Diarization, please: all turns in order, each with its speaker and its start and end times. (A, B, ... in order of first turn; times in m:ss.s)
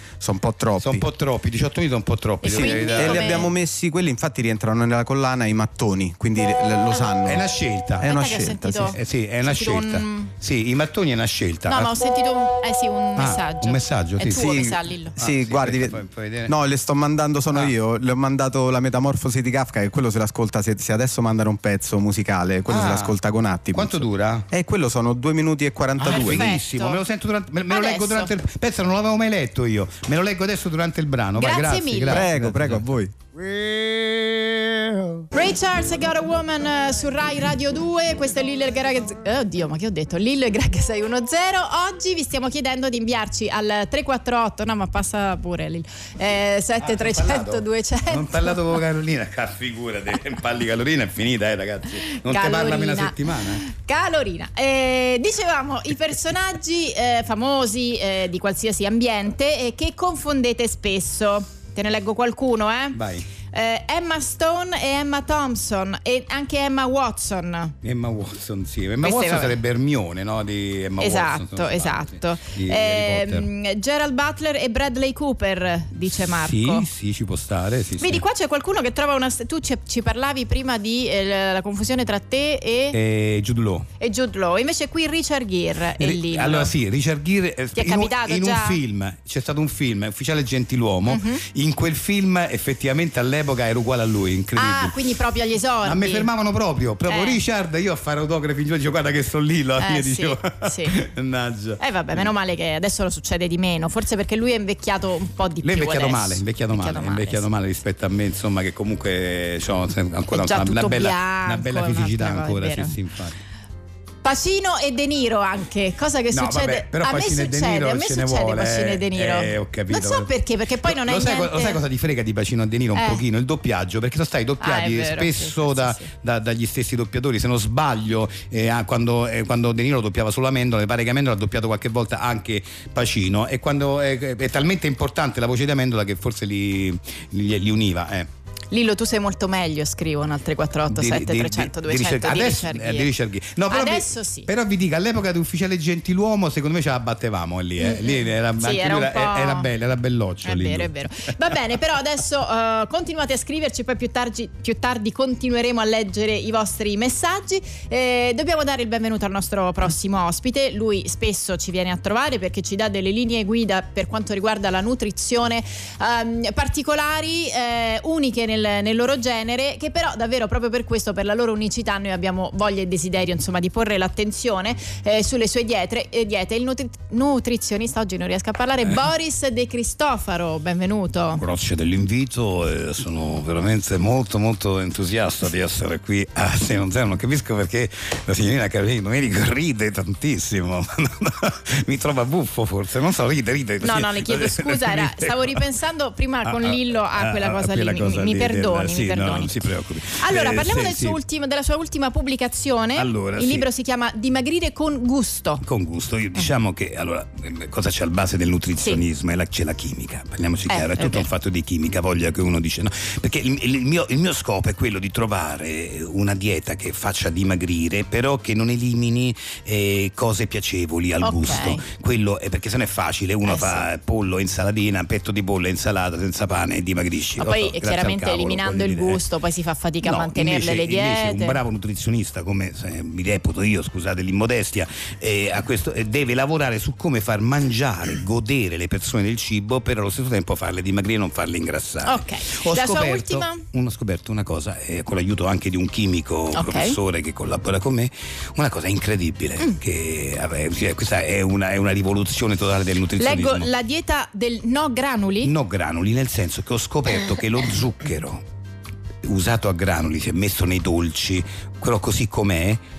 0:00.2-0:01.0 A
0:00.8-0:03.5 B
0:02.4-0:03.5 C
0:02.4-0:09.0 A
0:07.2-0:08.2 B
0:08.0-0:10.3 C
0:08.9-0:11.9 B
0:11.7-0:15.1 C
0:13.2-0:16.5 B
0:14.2-0:26.5 A
0:22.7-0:23.2 B
0:23.7-0:24.5 B
0:26.0-0:32.9 B
0:26.0-0:27.0 C
0:27.7-0:28.3 C
0:31.3-0:32.2 C
0:32.1-0:35.2 A
0:35.3-0:48.6 C
0:46.8-0:53.6 B
0:52.1-1:03.0 C
1:02.9-1:03.3 B
1:03.5-1:07.7 C
1:07.8-1:13.5 B
1:09.0-1:09.6 C
1:11.0-1:16.9 C
1:16.1-1:18.2 B
1:18.0-1:23.0 C
1:22.9-1:23.9 B
1:24.0-1:26.7 C
1:26.0-1:35.0 B
1:27.7-1:28.8 C
1:31.1-1:31.4 C
1:34.6-1:36.3 C
1:35.8-1:42.3 B
1:37.1-1:37.4 C
1:39.8-1:41.0 C
1:41.8-1:47.4 C
1:45.6-1:53.4 B
1:50.3-1:53.0 C
1:54.2-2:01.8 C
1:56.3-2:00.3 B
2:00.8-2:18.3 B
2:02.9-2:03.2 C
2:04.6-2:06.1 C
2:18.7-2:23.1 C
2:20.9-2:31.3 B
2:23.7-2:24.5 C
2:27.8-2:29.7 C
2:30.4-3:01.4 C
3:01.4-3:15.6 B
3:13.8-3:25.6 C
3:16.4-3:21.2 B
3:23.0-3:23.7 B
3:25.6-3:49.2 B
3:30.7-3:31.3 C
3:41.2-3:41.8 C
3:43.4-3:43.8 C
3:47.4-3:51.6 C
3:50.0-4:13.7 B
4:02.0-4:03.6 C
4:06.5-4:07.0 C
4:13.2-4:15.5 C
4:15.4-4:18.4 B
4:19.2-4:22.8 B